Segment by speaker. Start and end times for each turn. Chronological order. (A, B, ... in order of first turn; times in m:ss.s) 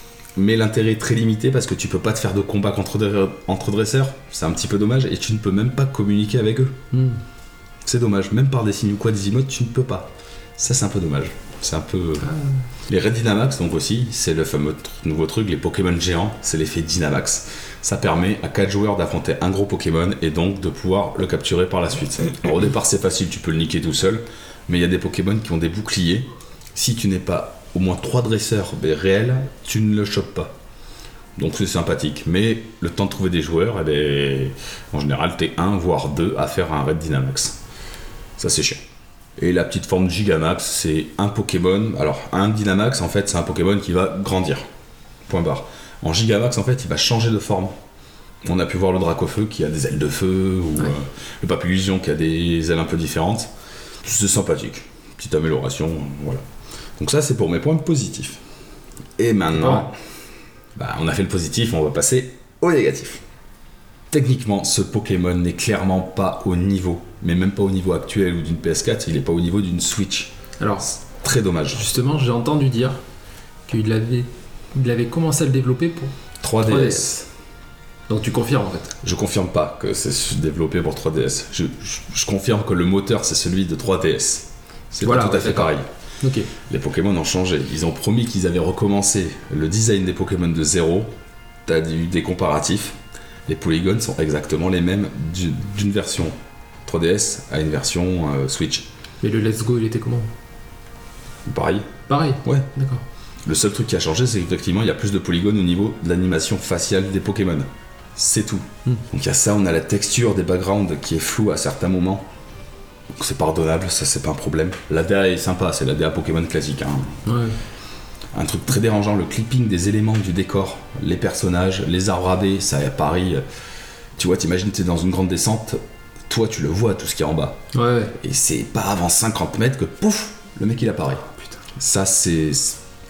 0:00.3-0:06.8 A
0:06.9-0:07.2 B
0:07.8-0:12.3 A
0:12.9-0:30.5 A
0:31.4-0:37.6 A
0:38.4-0:38.8 A
0:39.4-0:44.6 A
0:45.3-0:47.8 A
0:48.4-0:53.5 A
0:54.0-0:56.4 A
0:57.0-0:58.4 A
0:59.2-0:59.9 A
0:59.6-0:59.9 B
1:00.7-1:03.2 A
1:04.1-1:11.8 A
1:10.6-1:10.9 B
1:11.7-1:13.0 B
1:13.7-1:17.1 B
1:16.4-1:17.3 A
1:18.1-1:19.0 B
1:19.0-1:25.8 A
1:25.0-1:26.5 B
1:26.6-1:31.1 A
1:31.6-1:38.9 A
1:39.2-1:40.3 B
1:41.4-1:42.7 A
1:42.1-1:43.0 B
1:43.4-1:52.3 A
1:53.1-1:57.2 A
1:57.2-1:57.6 B
1:58.3-2:03.4 A
2:04.2-2:07.6 A
2:07.7-2:08.1 B
2:08.2-2:11.2 A
2:11.8-2:12.8 A